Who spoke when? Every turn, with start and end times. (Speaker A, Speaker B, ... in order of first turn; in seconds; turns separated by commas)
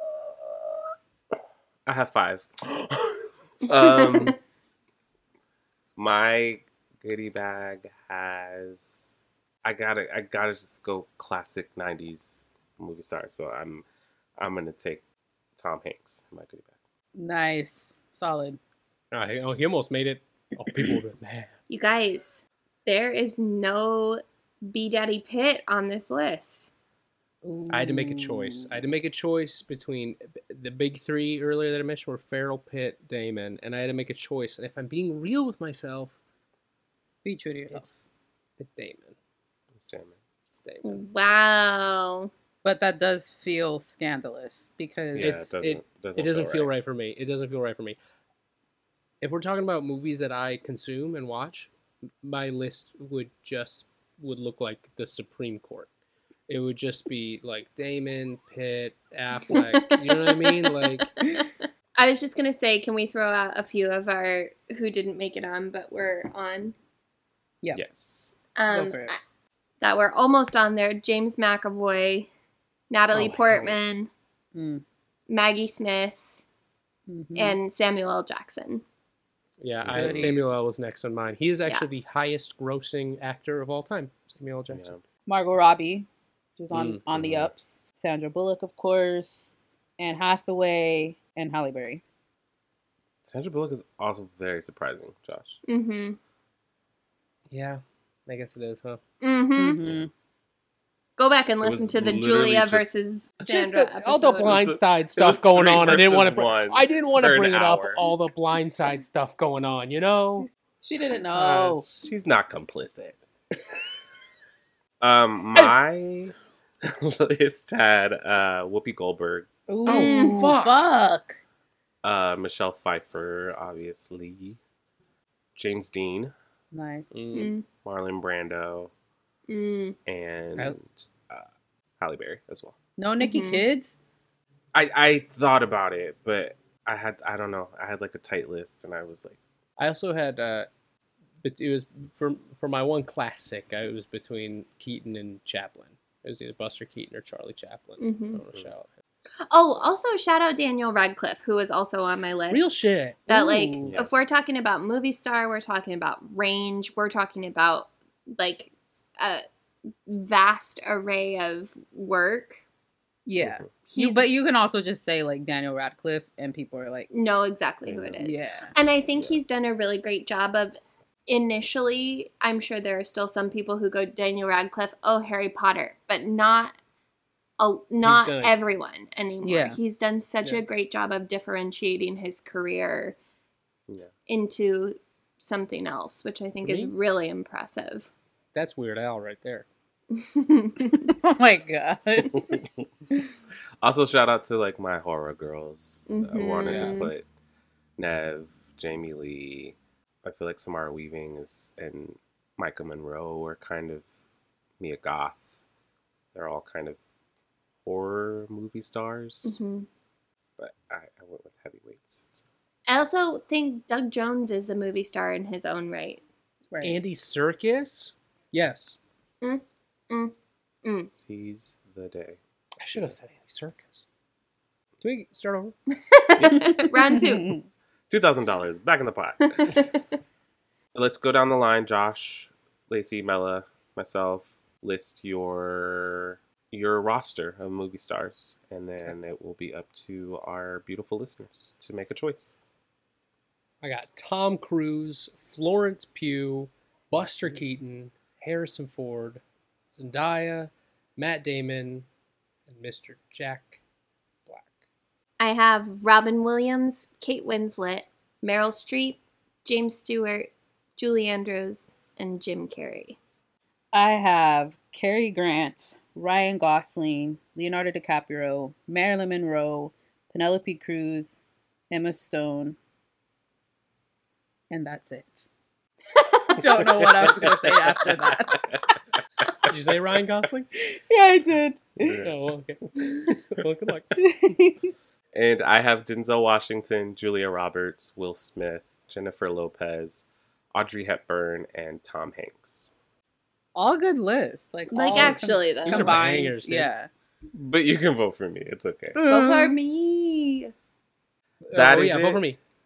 Speaker A: 1.9-4.4, Speaker A: 6.0-9.1, Speaker A: 9.6-13.8, Speaker A: 14.4-15.0, Speaker A: 15.6-16.7, Speaker B: 17.1-18.6, Speaker C: 19.1-21.5, Speaker D: 21.7-26.7, Speaker B: 27.4-28.8, Speaker C: 27.7-36.2, Speaker B: 37.2-37.9, Speaker C: 38.6-39.2, Speaker A: 39.7-40.2, Speaker C: 40.5-41.0, Speaker D: 40.8-42.3, Speaker B: 42.6-45.4, Speaker A: 45.1-46.7, Speaker C: 45.2-48.0, Speaker C: 49.2-51.7, Speaker C: 52.2-55.9, Speaker C: 56.5-61.1, Speaker D: 59.5-66.8, Speaker A: 67.7-68.3, Speaker D: 68.6-69.2, Speaker B: 68.7-69.1, Speaker D: 69.8-72.3, Speaker D: 72.9-74.1, Speaker C: 73.1-73.8, Speaker B: 74.5-74.8, Speaker D: 75.3-76.4, Speaker B: 77.1-77.6, Speaker D: 77.3-78.8, Speaker C: 79.6-85.0, Speaker A: 79.8-80.3, Speaker B: 79.9-80.6, Speaker A: 84.7-85.0, Speaker B: 85.3-86.1, Speaker B: 86.6-92.0, Speaker C: 86.7-87.0, Speaker A: 87.1-87.5, Speaker A: 93.2-95.6, Speaker D: 95.7-96.2, Speaker C: 97.5-99.0, Speaker D: 99.2-99.8, Speaker B: 99.6-100.1, Speaker A: 99.8-100.1, Speaker D: 101.2-104.7, Speaker A: 101.6-102.9, Speaker C: 103.4-110.5, Speaker A: 104.4-108.0, Speaker B: 110.8-111.8, Speaker C: 111.3-111.8, Speaker A: 111.8-113.2, Speaker A: 115.0-119.5, Speaker B: 119.7-121.4, Speaker C: 119.9-120.8, Speaker D: 119.9-120.3, Speaker A: 122.0-124.6, Speaker A: 125.6-126.3, Speaker B: 126.7-127.1, Speaker C: 127.1-127.5, Speaker D: 127.3-127.7, Speaker A: 127.8-128.9, Speaker D: 129.5-130.0, Speaker A: 130.1-131.5, Speaker A: 132.0-132.8, Speaker B: 133.0-134.0, Speaker D: 133.2-133.6, Speaker A: 134.7-139.4, Speaker C: 139.8-140.7, Speaker C: 141.4-148.9, Speaker D: 148.0-148.4, Speaker D: 149.5-159.4, Speaker C: 152.5-153.9, Speaker A: 153.8-154.1, Speaker D: 160.1-162.6, Speaker B: 163.3-167.1, Speaker A: 163.4-163.7, Speaker D: 163.9-164.3, Speaker D: 167.1-176.8, Speaker A: 167.9-168.2, Speaker B: 168.2-168.7, Speaker A: 169.1-169.4, Speaker D: 177.6-183.2, Speaker C: 178.0-178.6, Speaker B: 179.4-179.8, Speaker D: 184.3-188.1, Speaker C: 186.6-186.9, Speaker C: 188.5-189.7, Speaker D: 190.1-191.1, Speaker B: 191.0-192.6, Speaker A: 192.3-192.7, Speaker A: 193.8-197.2, Speaker D: 196.1-197.1, Speaker C: 196.6-197.0, Speaker A: 198.0-204.1, Speaker A: 204.8-205.4, Speaker A: 206.3-207.0, Speaker A: 207.9-209.6, Speaker D: 209.4-209.9, Speaker A: 210.6-212.4, Speaker D: 212.9-216.2, Speaker B: 216.7-217.0, Speaker C: 216.8-219.0, Speaker D: 219.4-221.1, Speaker A: 221.1-222.4, Speaker C: 222.8-224.0, Speaker C: 225.0-225.8, Speaker D: 226.1-227.6, Speaker A: 226.4-226.9, Speaker B: 226.9-227.6, Speaker A: 228.1-229.8, Speaker D: 229.6-229.9, Speaker A: 230.9-242.6, Speaker C: 243.8-252.1, Speaker C: 252.7-253.8, Speaker C: 254.5-254.8, Speaker D: 255.4-263.2, Speaker B: 263.9-271.3, Speaker B: 271.9-272.8, Speaker B: 274.7-275.4, Speaker B: 276.5-278.6, Speaker A: 276.8-278.8, Speaker C: 279.7-280.7, Speaker B: 280.8-282.1, Speaker A: 282.0-282.3, Speaker C: 282.2-284.2, Speaker B: 284.2-284.8, Speaker A: 285.3-292.9, Speaker B: 293.8-297.1, Speaker D: 294.9-296.2, Speaker C: 295.1-296.9, Speaker A: 297.5-299.2, Speaker B: 299.1-299.8, Speaker D: 299.2-300.7, Speaker C: 301.7-302.6, Speaker A: 301.7-302.5